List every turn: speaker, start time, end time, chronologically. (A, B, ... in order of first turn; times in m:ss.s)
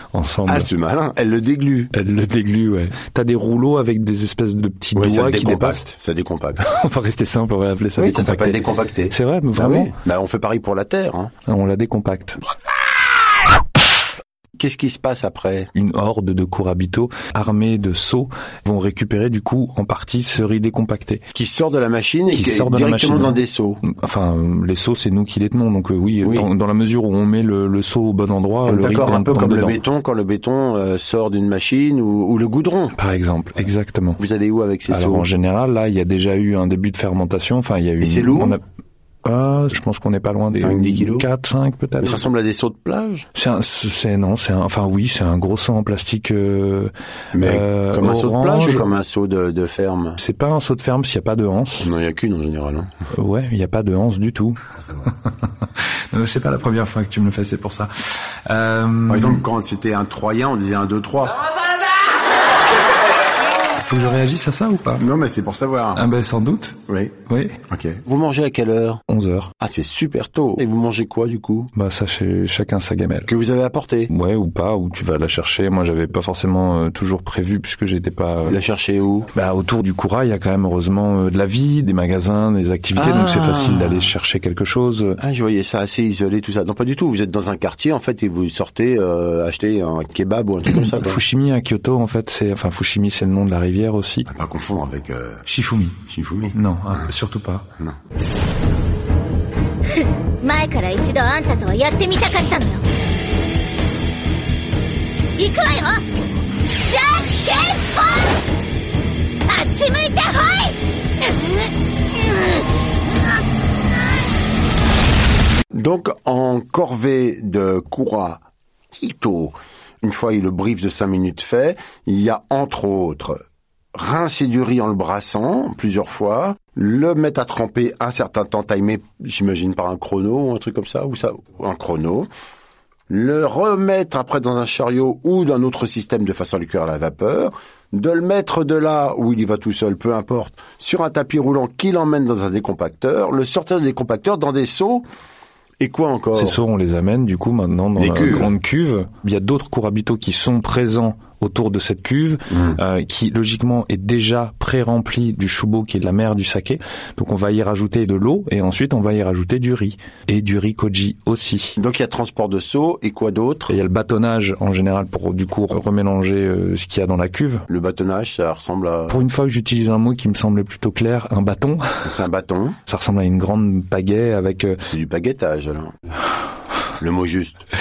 0:00.1-0:00.7 A
0:00.5-0:01.9 B
0:01.9-0:05.9 A
0:04.9-0:06.6 B
0:06.6-0:09.9 A
0:08.0-0:11.3 B
0:11.5-0:12.4 A
0:14.6-0:15.7 B
0:15.7-0:21.2 A
0:21.3-0:23.8 B
0:22.3-0:29.8 A
0:26.2-0:26.5 B
0:28.6-0:32.9 B
0:32.9-0:34.2 A
0:34.2-0:35.3 B
0:34.9-0:38.6 A
0:38.0-0:38.6 B
0:39.2-0:42.2 A
0:40.6-0:41.3 B
0:42.0-0:43.3 B
0:43.3-0:48.8 A
0:47.3-0:50.2 B
0:50.2-0:51.9 A
0:51.8-0:52.9 B
0:53.1-0:55.5 A
0:56.1-0:57.9 A
0:58.5-0:59.4 A
0:59.1-1:01.4 B
1:03.8-1:05.0 A
1:05.0-1:06.0 B
1:05.9-1:07.6 A
1:06.9-1:07.1 B
1:07.7-1:09.0 B
1:09.1-1:09.5 A
1:09.6-1:11.7 B
1:11.8-1:13.3 A
1:13.3-1:14.1 B
1:14.1-1:18.6 A
1:18.5-1:19.3 B
1:19.3-1:25.2 A
1:23.0-1:24.1 B
1:25.2-1:31.2 B
1:30.7-1:34.3 A
1:34.3-1:35.4 B
1:35.5-1:36.0 A
1:36.1-1:37.0 B
1:36.5-1:37.7 A
1:40.4-1:42.8 C
1:45.4-1:46.0 C
1:46.8-1:48.3 C
1:49.5-1:50.8 C
1:55.7-1:58.4 B
1:58.9-2:03.4 B
2:03.9-2:12.3 B
2:13.1-2:25.1 B
2:25.8-2:26.6 B
2:26.3-2:41.8 A
2:28.0-2:28.5 B
2:32.5-2:32.8 B
2:41.8-2:43.8 B
2:43.7-2:47.7 A
2:47.7-2:49.2 B
2:49.1-2:52.0 A
2:52.0-2:52.8 B
2:52.9-2:54.8 A
2:54.8-2:55.9 B
2:57.0-2:57.6 B